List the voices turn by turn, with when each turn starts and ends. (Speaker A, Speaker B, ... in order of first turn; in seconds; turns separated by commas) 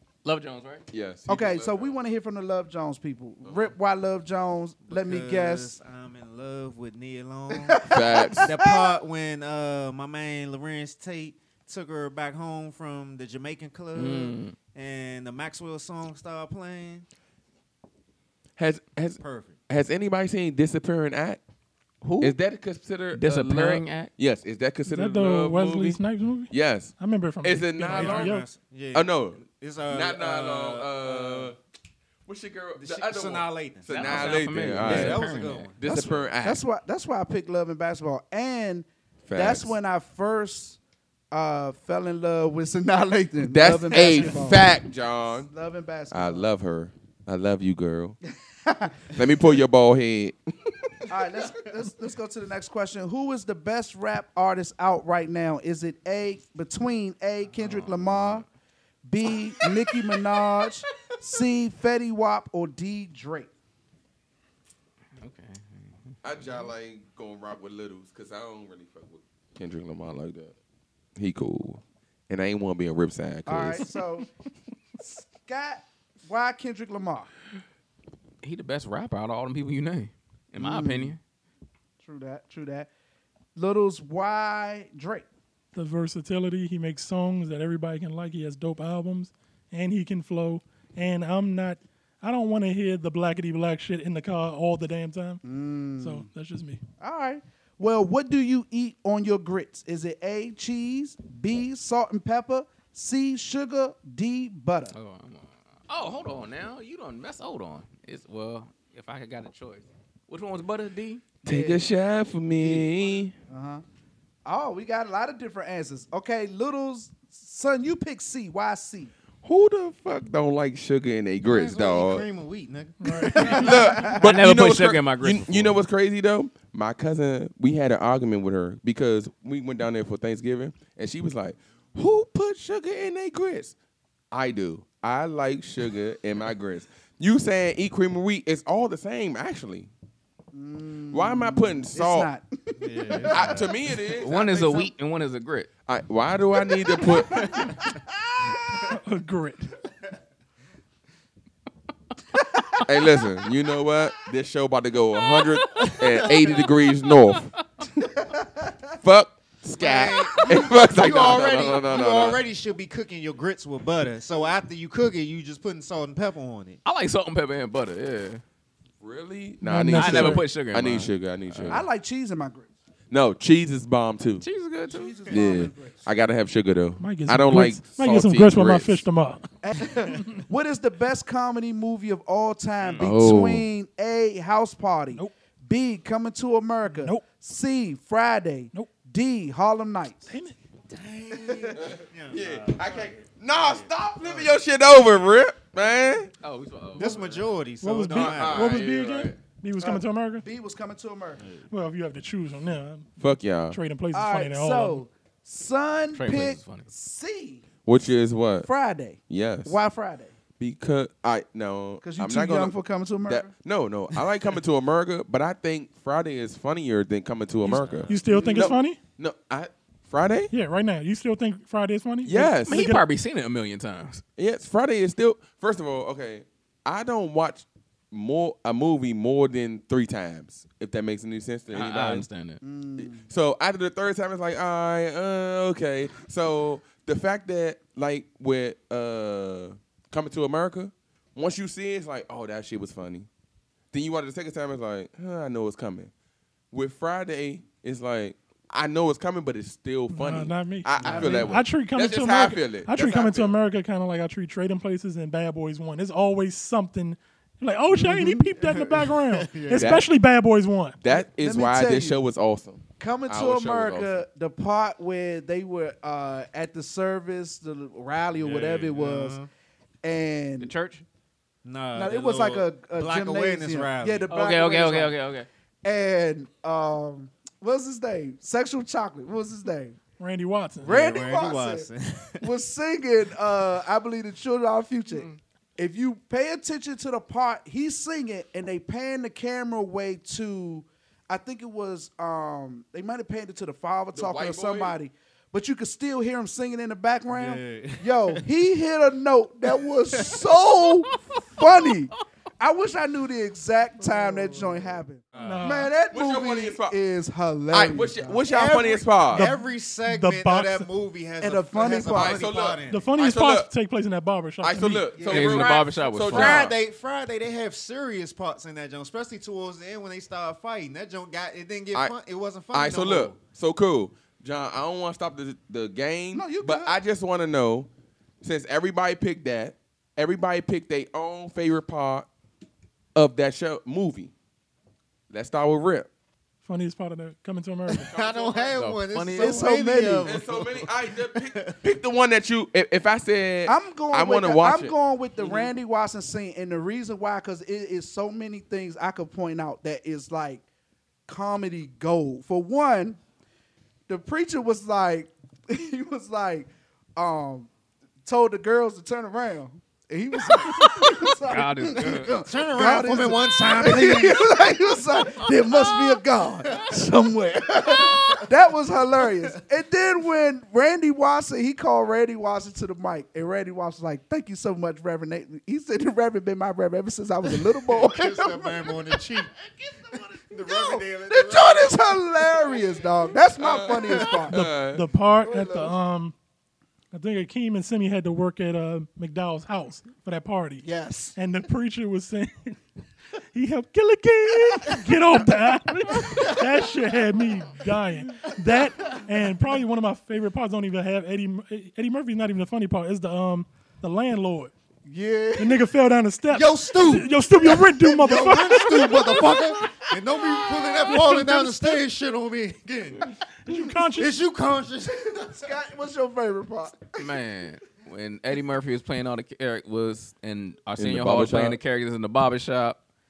Speaker A: 0.2-0.8, Speaker B: 0.9-2.0, Speaker C: 1.3-5.8, Speaker B: 3.4-3.7, Speaker D: 4.9-7.8, Speaker C: 7.6-9.0, Speaker B: 7.9-8.5, Speaker D: 8.4-17.1, Speaker A: 13.9-14.6, Speaker B: 18.6-21.4, Speaker D: 19.2-19.6, Speaker A: 22.0-22.4, Speaker B: 22.2-26.0, Speaker A: 23.1-24.1, Speaker E: 24.9-28.5, Speaker B: 26.5-28.4, Speaker D: 27.9-31.5, Speaker B: 28.9-31.6, Speaker B: 32.3-36.6, Speaker D: 32.8-36.2, Speaker A: 33.9-35.7, Speaker C: 35.9-40.8, Speaker B: 39.3-39.8, Speaker C: 41.3-44.7, Speaker B: 43.4-45.5, Speaker C: 45.5-46.5, Speaker B: 46.1-48.2, Speaker C: 48.7-49.2, Speaker B: 49.1-50.9, Speaker C: 51.1-58.5, Speaker A: 57.5-58.4, Speaker C: 59.1-63.5, Speaker A: 65.2-66.2, Speaker B: 66.2-70.5, Speaker B: 71.2-73.9, Speaker C: 73.5-74.3, Speaker C: 75.0-77.3, Speaker A: 78.4-81.2, Speaker C: 80.6-81.2, Speaker C: 82.0-82.9, Speaker C: 83.6-85.3, Speaker E: 85.7-95.4, Speaker C: 95.4-96.3, Speaker E: 96.0-96.8, Speaker C: 97.0-105.0, Speaker A: 104.9-111.2, Speaker C: 111.4-111.8, Speaker B: 111.5-113.3, Speaker D: 112.7-113.2, Speaker C: 113.5-113.8, Speaker C: 114.5-119.1, Speaker B: 119.4-122.3, Speaker D: 121.4-123.8, Speaker E: 123.0-123.8, Speaker C: 123.3-124.2, Speaker B: 123.4-133.7, Speaker A: 124.0-125.8, Speaker B: 134.3-139.9, Speaker C: 140.5-143.7, Speaker B: 141.1-142.3, Speaker D: 142.8-143.7, Speaker B: 143.3-144.9, Speaker A: 144.1-145.7, Speaker B: 145.9-147.6, Speaker C: 147.0-148.8, Speaker E: 148.9-149.7, Speaker B: 152.9-158.0, Speaker A: 155.6-156.7, Speaker C: 158.2-158.7, Speaker B: 159.0-162.4, Speaker D: 159.8-166.8, Speaker A: 166.8-168.4, Speaker B: 169.0-171.8, Speaker E: 169.6-170.4, Speaker A: 169.9-171.8, Speaker C: 171.7-172.7, Speaker B: 173.1-174.4, Speaker A: 174.4-175.2, Speaker C: 174.9-176.1, Speaker B: 175.3-179.0, Speaker E: 177.0-179.5, Speaker C: 179.6-190.3, Speaker E: 180.1-180.4, Speaker A: 183.0-183.2, Speaker B: 183.0-183.7, Speaker E: 186.9-187.2, Speaker E: 190.3-190.6, Speaker D: 190.9-194.5, Speaker C: 191.3-191.8, Speaker B: 191.8-196.3, Speaker A: 196.4-197.5, Speaker D: 197.0-198.8, Speaker E: 197.8-200.4, Speaker B: 198.1-199.4, Speaker C: 199.8-201.4, Speaker D: 201.4-201.7, Speaker E: 201.7-203.1, Speaker B: 203.2-203.8, Speaker E: 203.7-205.0, Speaker C: 204.1-207.6, Speaker A: 206.1-206.9, Speaker B: 207.9-208.7, Speaker C: 208.6-210.3, Speaker B: 209.3-209.8, Speaker B: 210.6-212.8, Speaker C: 212.0-213.5, Speaker B: 213.3-220.5, Speaker D: 217.7-218.2, Speaker E: 218.1-219.0, Speaker C: 218.2-218.8, Speaker E: 220.5-223.0, Speaker B: 222.2-222.9, Speaker A: 222.7-224.2, Speaker B: 224.4-232.3, Speaker A: 231.7-232.6, Speaker C: 232.6-233.2, Speaker B: 233.0-243.3, Speaker B: 243.9-246.1, Speaker B: 246.7-253.6, Speaker E: 250.1-261.0, Speaker C: 251.0-251.6, Speaker D: 251.0-251.3, Speaker C: 257.9-258.4, Speaker D: 258.6-260.0, Speaker B: 259.7-260.1, Speaker B: 261.0-264.2, Speaker C: 261.1-262.2, Speaker C: 263.0-269.4, Speaker D: 268.4-269.5, Speaker C: 270.0-270.7, Speaker A: 270.6-271.1, Speaker D: 271.6-274.3, Speaker C: 271.9-275.2, Speaker A: 274.3-275.5, Speaker C: 275.8-280.0, Speaker E: 280.2-280.9, Speaker D: 280.8-282.5, Speaker C: 280.8-281.9, Speaker C: 282.4-309.1, Speaker B: 294.1-295.0, Speaker D: 297.3-298.4, Speaker D: 300.1-300.4, Speaker D: 304.0-305.7, Speaker E: 305.4-305.9, Speaker B: 306.1-307.0, Speaker B: 307.7-309.5, Speaker E: 309.3-310.9, Speaker D: 309.3-313.1, Speaker C: 311.4-312.4, Speaker B: 312.1-313.7, Speaker E: 312.9-315.2, Speaker B: 314.6-316.8, Speaker C: 315.1-315.5, Speaker A: 315.2-316.8, Speaker D: 315.3-323.4, Speaker B: 322.7-327.9, Speaker C: 326.3-327.0, Speaker B: 328.4-332.3, Speaker B: 333.1-334.3, Speaker B: 335.3-336.1, Speaker E: 336.6-338.1, Speaker D: 337.9-341.8, Speaker B: 338.0-338.8, Speaker A: 338.7-339.8, Speaker C: 339.4-340.4, Speaker B: 340.2-344.9, Speaker C: 343.7-350.6, Speaker D: 345.4-345.7, Speaker C: 351.3-353.2, Speaker C: 354.1-357.7, Speaker C: 358.2-379.2, Speaker A: 360.8-362.4, Speaker D: 362.3-364.5, Speaker A: 365.4-366.0, Speaker D: 367.9-368.4, Speaker D: 377.8-379.6, Speaker D: 380.1-383.1, Speaker C: 380.6-384.7, Speaker B: 383.6-385.1, Speaker E: 384.5-386.4, Speaker C: 385.4-386.0, Speaker E: 387.1-392.8, Speaker C: 390.8-391.4, Speaker E: 393.5-404.7, Speaker C: 396.3-396.6, Speaker C: 405.1-405.9, Speaker E: 405.6-410.1, Speaker D: 406.5-413.3, Speaker C: 409.4-409.9, Speaker E: 411.0-412.0, Speaker E: 413.7-414.4, Speaker D: 414.1-415.7, Speaker C: 415.4-417.2, Speaker A: 417.2-423.0, Speaker B: 421.0-421.8